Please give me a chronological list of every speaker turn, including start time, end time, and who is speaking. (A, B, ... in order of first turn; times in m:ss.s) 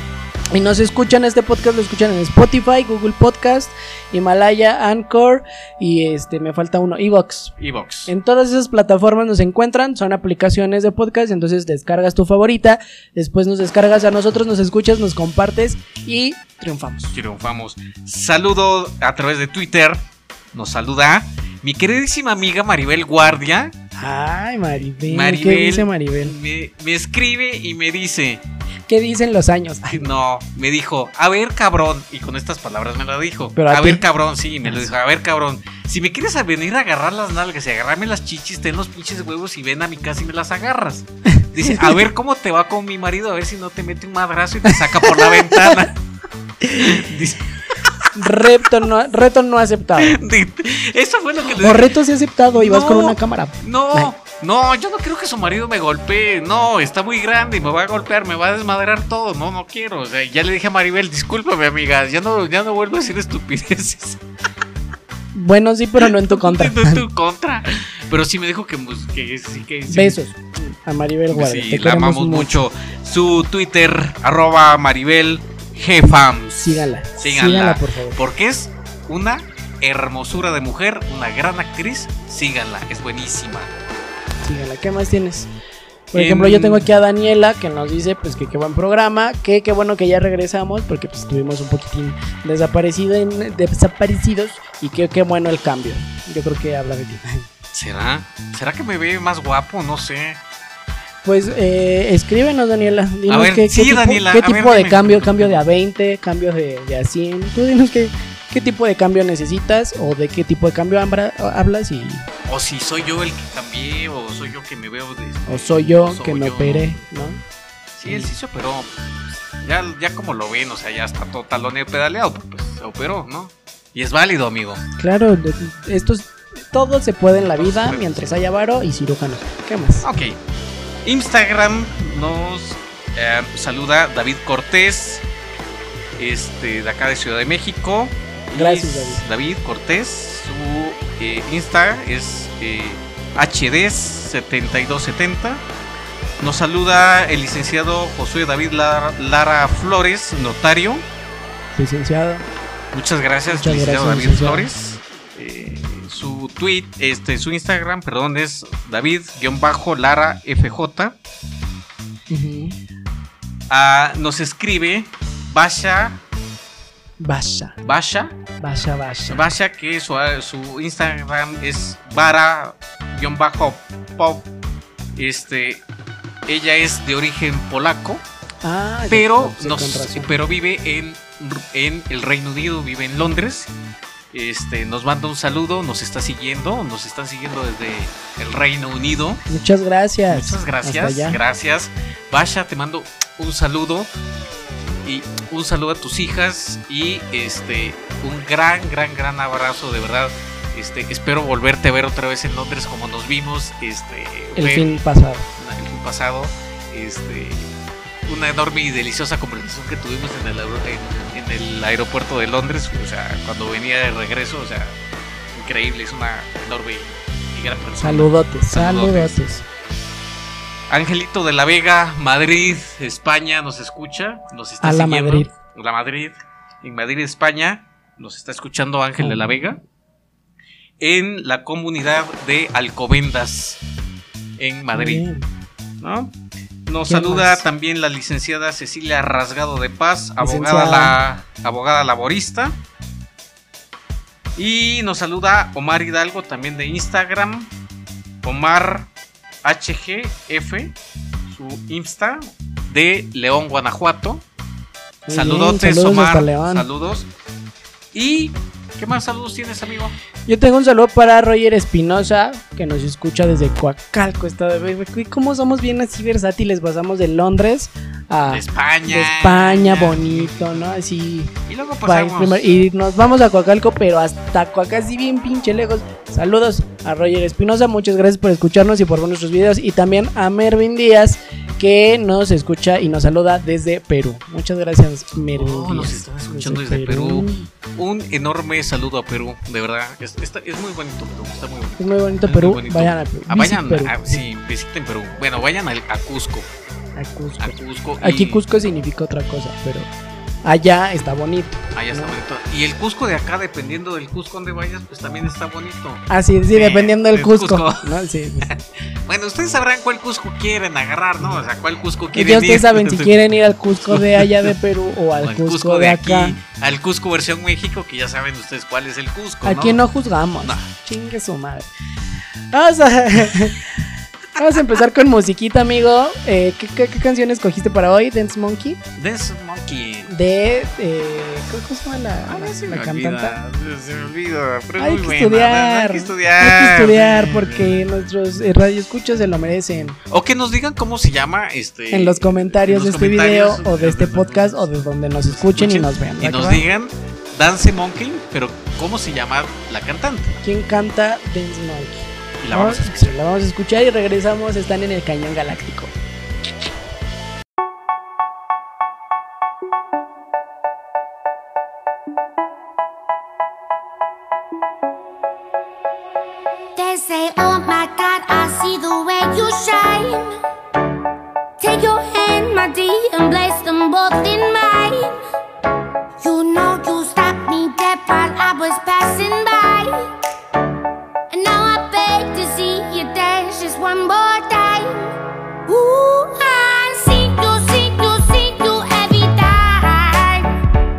0:00.5-0:07.5 A
0:07.6-0:08.1 B
0:08.1-0:17.1 A
0:17.1-0:20.0 B
0:20.5-0:23.7 B
0:24.0-0:26.3 A
0:25.0-0:28.4 B
0:28.9-0:30.1 A
0:29.9-0:46.0 B
0:33.6-0:34.0 A
0:34.6-0:34.9 A
0:41.3-0:42.0 A
0:44.7-0:45.8 A
0:46.6-0:46.9 A
0:46.7-0:48.1 B
0:48.2-0:50.2 A
0:50.0-0:51.9 B
0:51.6-0:54.1 A
0:52.5-1:04.2 B
1:05.3-1:07.0 A
1:06.0-1:10.2 B
1:09.9-1:12.5 A
1:11.3-1:23.7 B
1:16.6-1:18.2 A
1:24.4-1:25.5 A
1:26.1-1:37.5 A
1:26.1-1:26.8 B
1:37.7-1:40.4 B
1:41.2-1:52.2 A
1:43.3-1:45.6 B
1:52.4-1:57.0 B
1:55.5-1:57.4 A
1:58.0-1:58.9 B
1:59.6-2:04.8 B
2:05.0-2:10.0 A
2:07.4-2:08.4 B
2:10.0-2:10.4 B
2:11.0-2:15.2 B
2:16.2-2:25.6 B
2:18.5-2:19.2 A
2:26.4-2:31.0 B
2:31.7-2:32.4 A
2:32.9-2:41.2 B
2:33.5-2:34.7 A
2:42.3-2:42.8 A
2:43.7-2:46.2 B
2:47.2-2:47.7 A
2:47.8-2:48.3 B
2:48.6-2:49.4 A
2:49.3-2:54.4 B
2:55.2-2:55.8 B
2:56.5-2:58.2 B
2:58.6-3:00.3 A
2:59.1-3:03.7 B
3:04.3-3:09.4 B
3:09.5-3:11.4 A
3:10.3-3:14.1 B
3:15.0-3:24.9 B
3:24.6-3:25.4 A
3:25.6-3:27.7 B
3:28.3-3:35.0 B
3:35.5-3:39.4 B
3:38.0-3:39.6 A
3:40.9-3:49.8 B
3:44.8-3:45.5 A
3:49.2-3:49.6 A
3:51.0-3:53.8 B
3:54.6-3:55.3 B
3:54.9-3:55.4 A
3:56.0-3:56.3 B
3:56.9-4:02.8 B
3:57.1-3:57.6 A
4:00.4-4:01.2 A
4:04.6-4:07.7 B
4:08.4-4:09.1 B
4:09.6-4:10.9 B
4:11.5-4:14.4 B
4:15.3-4:16.8 A
4:15.3-4:17.3 B
4:18.1-4:20.1 B
4:20.5-4:31.5 A
4:28.5-4:30.8 B
4:31.7-4:32.6 B
4:32.0-4:47.7 A
4:45.5-4:56.7 B
4:52.0-4:54.4 A
4:57.2-5:00.1 A
4:57.6-4:58.6 B
5:00.6-5:02.3 A
5:01.9-5:08.1 B
5:06.3-5:08.7 A
5:08.7-5:13.3 B
5:12.3-5:16.6 A
5:14.0-5:14.7 B
5:15.4-5:20.0 B
5:19.6-5:21.9 A
5:22.7-5:23.8 A
5:24.6-5:29.0 A
5:29.2-5:30.3 B
5:30.3-5:33.6 A
5:32.5-5:37.9 B
5:35.0-5:40.2 A
5:40.3-5:50.6 B
5:42.1-5:46.8 A
5:50.6-5:56.1 A
5:52.6-5:53.3 B
6:06.9-6:10.5 C
6:11.8-6:15.4 C
6:16.4-6:20.3 C
6:21.5-6:25.3 C
6:25.9-6:30.7 C